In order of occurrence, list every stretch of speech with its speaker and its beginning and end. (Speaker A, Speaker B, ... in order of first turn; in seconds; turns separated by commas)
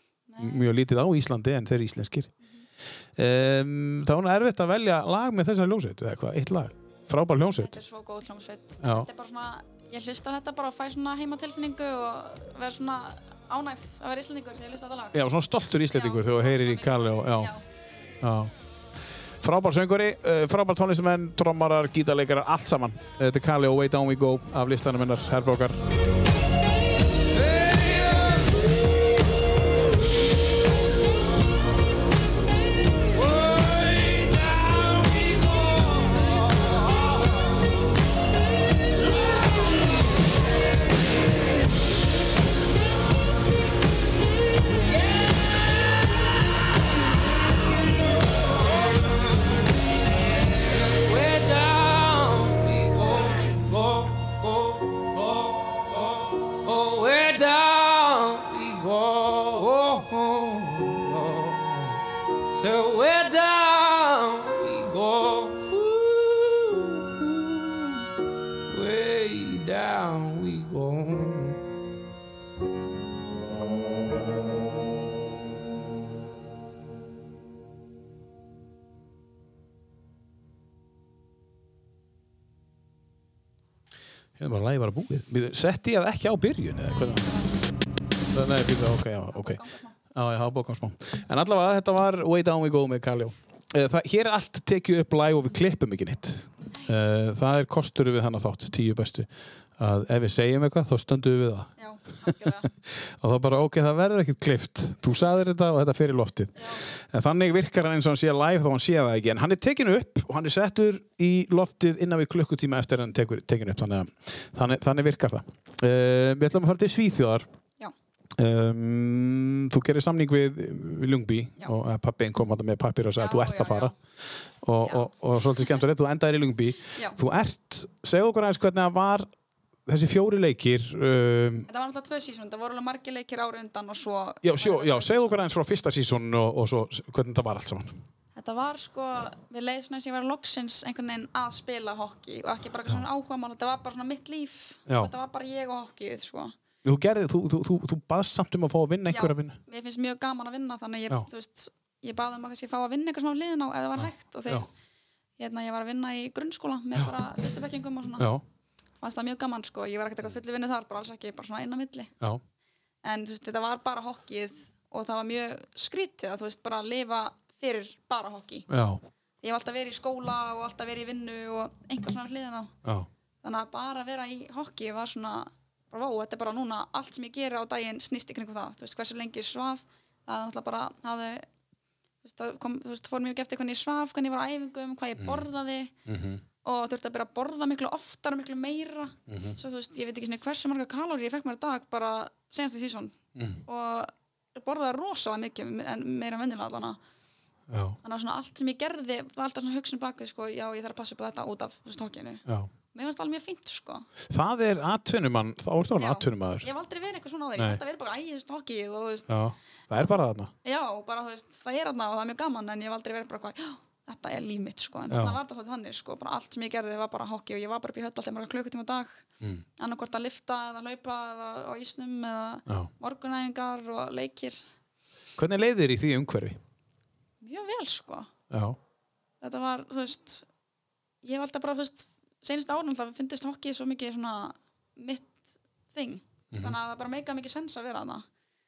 Speaker A: 0.3-0.7, Speaker B: 0.4-2.3, Speaker B: 3.2-7.8, Speaker A: 7.6-15.3, Speaker B: 8.8-9.1, Speaker B: 15.1-17.5, Speaker A: 15.9-17.6, Speaker B: 18.2-18.5, Speaker B: 19.4-25.9, Speaker C: 27.3-28.6, Speaker C: 33.1-37.6, Speaker C: 39.0-39.9, Speaker C: 44.9-45.9, Speaker C: 50.6-68.1, Speaker C: 68.7-71.6, Speaker B: 84.4-87.3, Speaker A: 86.9-87.7, Speaker B: 88.3-89.6, Speaker A: 89.3-90.0, Speaker B: 90.1-101.7, Speaker A: 101.8-102.7, Speaker B: 102.2-117.5, Speaker A: 106.6-106.8, Speaker B: 118.4-123.9, Speaker A: 123.2-124.0, Speaker B: 124.6-129.3, Speaker B: 129.9-131.7, Speaker A: 131.7-135.4, Speaker B: 134.4-138.0, Speaker A: 138.4-146.5, Speaker B: 144.9-145.1, Speaker B: 146.8-149.6, Speaker A: 149.1-154.7, Speaker B: 154.0-154.7, Speaker A: 155.4-158.3, Speaker B: 158.2-158.4, Speaker A: 159.0-162.1, Speaker A: 163.0-168.7, Speaker B: 168.7-169.0, Speaker A: 169.4-172.7, Speaker B: 172.8-173.1, Speaker A: 173.4-181.5, Speaker A: 182.2-185.9, Speaker B: 185.2-185.5, Speaker B: 186.1-186.4, Speaker A: 186.6-197.0, Speaker B: 189.3-189.6, Speaker B: 193.3-193.6, Speaker B: 197.7-198.0, Speaker A: 198.0-204.1, Speaker B: 204.3-206.7, Speaker A: 206.0-209.4, Speaker B: 207.6-207.8, Speaker B: 209.3-210.5, Speaker A: 209.9-219.3, Speaker B: 215.1-215.4, Speaker A: 219.8-224.6, Speaker B: 225.4-226.6, Speaker A: 227.4-228.3, Speaker B: 228.5-228.8, Speaker A: 229.4-230.5, Speaker A: 231.2-238.3, Speaker B: 236.5-236.8